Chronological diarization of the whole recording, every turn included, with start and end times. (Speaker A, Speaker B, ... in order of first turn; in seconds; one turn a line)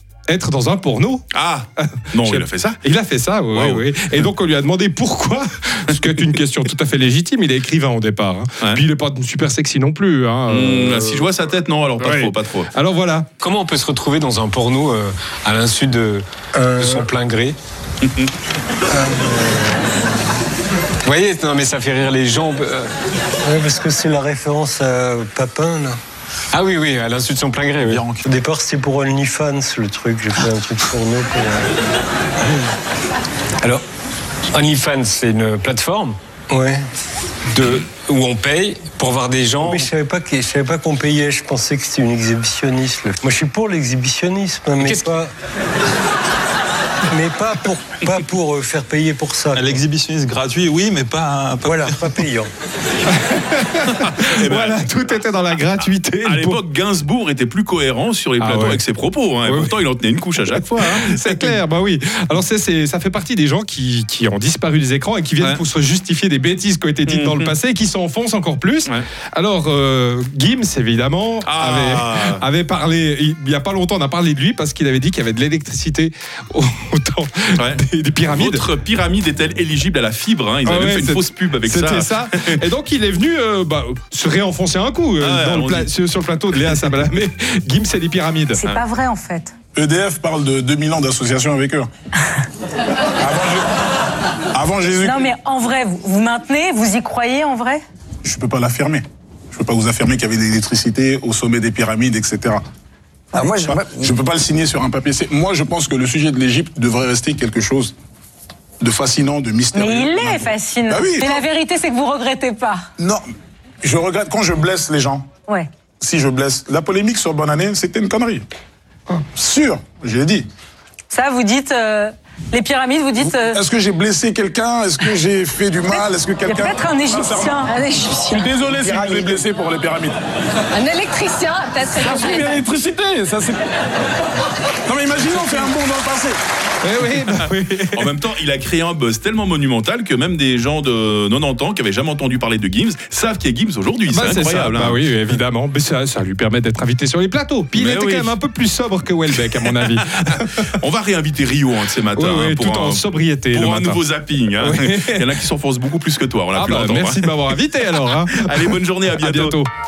Speaker A: 0.3-1.3
Speaker B: 1.3-2.8
Speaker A: 1.9-11.2
Speaker B: 3.5-3.8
Speaker B: 10.5-12.7
Speaker A: 12.0-13.3
Speaker C: 13.4-16.2
Speaker D: 16.5-17.1
Speaker C: 16.8-17.6
Speaker B: 18.0-18.3
Speaker D: 18.9-19.9
Speaker C: 21.0-22.9
Speaker D: 23.4-26.0
Speaker C: 26.5-28.1
Speaker D: 28.1-31.7
Speaker C: 34.5-36.2
Speaker D: 36.5-36.8
Speaker C: 37.5-39.9
Speaker D: 39.6-45.3
Speaker C: 44.8-45.1
Speaker D: 47.1-49.8
Speaker E: 49.5-52.0
Speaker D: 51.6-52.5
Speaker A: 53.3-56.6
Speaker B: 54.0-54.8
Speaker B: 56.2-61.6
Speaker A: 58.4-58.8
Speaker A: 59.5-59.7
Speaker A: 60.5-78.6
Speaker B: 67.1-67.5
Speaker B: 71.5-72.4
Speaker B: 77.6-82.6
Speaker A: 80.6-88.6
Speaker B: 85.2-85.9
Speaker B: 86.5-86.9
Speaker F: 88.5-89.5
Speaker G: 89.8-91.9
Speaker G: 93.2-93.7
Speaker G: 94.5-95.3
Speaker F: 95.0-97.8
Speaker G: 98.2-102.6
Speaker G: 103.3-107.9
Speaker G: 108.8-111.4
Speaker F: 109.7-112.8
Speaker G: 113.0-113.2
Speaker G: 113.8-115.3
Speaker G: 116.0-118.4
Speaker G: 119.2-120.5
Speaker F: 121.1-123.6
Speaker G: 123.2-127.6
Speaker F: 125.9-128.5
Speaker G: 128.3-130.2
Speaker F: 130.8-132.1
Speaker G: 132.0-133.7
Speaker G: 134.8-136.4
Speaker A: 136.8-138.1
Speaker B: 137.1-145.0
Speaker A: 144.1-150.7
Speaker B: 147.7-148.3
Speaker B: 149.8-157.6
Speaker A: 152.1-154.0
Speaker A: 154.6-155.3
Speaker A: 156.5-159.7
Speaker B: 158.3-159.5